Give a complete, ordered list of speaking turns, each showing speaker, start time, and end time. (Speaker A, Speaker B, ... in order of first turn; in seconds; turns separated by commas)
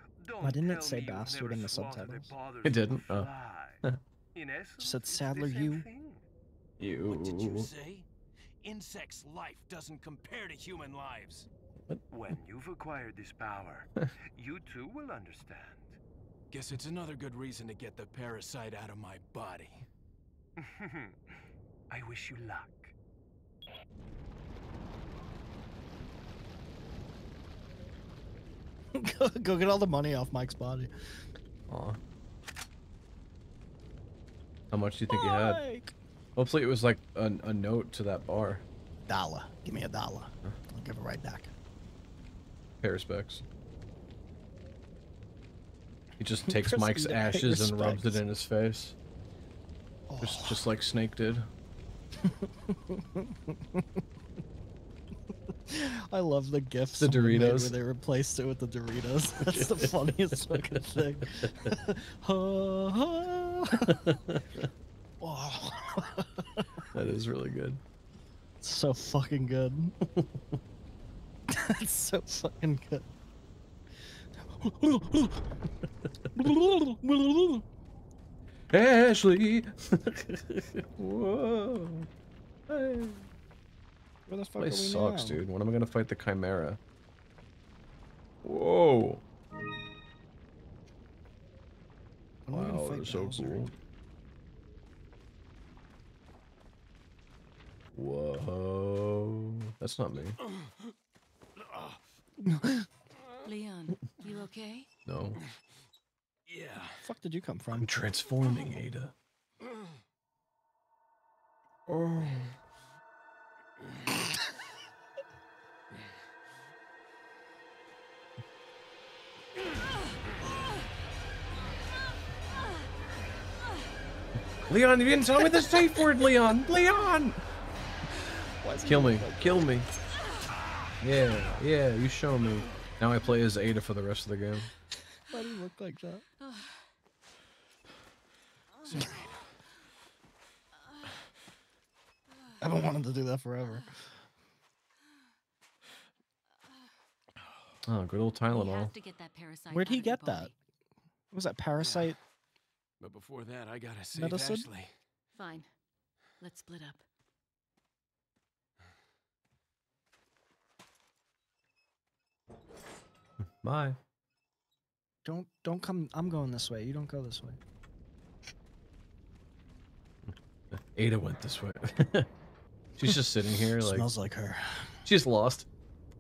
Speaker A: 0.2-6.3, Speaker B: 0.4-2.3, Speaker C: 2.6-3.3, Speaker B: 4.8-5.8, Speaker C: 6.8-7.7, Speaker D: 7.0-8.1, Speaker D: 8.6-11.5, Speaker A: 12.1-16.0, Speaker D: 16.5-19.9, Speaker A: 20.6-21.2, Speaker A: 21.9-22.9, Speaker B: 28.9-30.9, Speaker C: 31.7-32.0, Speaker C: 34.7-35.6, Speaker B: 35.1-35.9, Speaker C: 36.4-38.6, Speaker B: 39.1-41.5, Speaker C: 42.8-43.4, Speaker C: 46.2-49.0, Speaker B: 46.5-48.2, Speaker B: 50.1-50.6, Speaker C: 50.2-51.5, Speaker B: 52.2-54.0, Speaker B: 55.7-64.1, Speaker C: 57.0-57.8, Speaker C: 59.4-61.8, Speaker C: 63.8-64.7, Speaker B: 65.2-66.9, Speaker C: 66.9-67.8, Speaker B: 68.6-70.0, Speaker B: 71.5-73.1, Speaker B: 74.4-75.5, Speaker B: 76.4-77.6, Speaker C: 78.7-82.1, Speaker C: 82.7-83.3, Speaker B: 84.3-85.4, Speaker C: 84.6-86.8, Speaker C: 88.4-89.2, Speaker B: 92.5-93.7, Speaker C: 92.5-93.7, Speaker C: 97.9-100.4, Speaker B: 102.4-102.8, Speaker E: 103.4-104.9, Speaker C: 105.1-105.4, Speaker D: 106.5-107.1, Speaker B: 107.0-107.9, Speaker C: 107.7-109.1, Speaker C: 111.9-112.4, Speaker C: 124.6-127.4, Speaker B: 128.6-129.6, Speaker C: 128.8-129.9, Speaker C: 131.0-134.7, Speaker B: 135.3-136.2, Speaker D: 138.9-139.4, Speaker B: 142.6-144.1, Speaker C: 147.8-148.9, Speaker E: 148.5-150.5, Speaker B: 149.7-150.5, Speaker B: 151.3-152.2, Speaker D: 151.8-152.2, Speaker D: 153.0-154.9, Speaker B: 154.2-154.7, Speaker E: 155.3-155.7, Speaker E: 156.4-157.0, Speaker C: 163.6-164.0, Speaker B: 165.2-167.6, Speaker C: 170.7-172.3, Speaker C: 173.0-174.1, Speaker B: 173.8-175.1, Speaker C: 175.1-175.7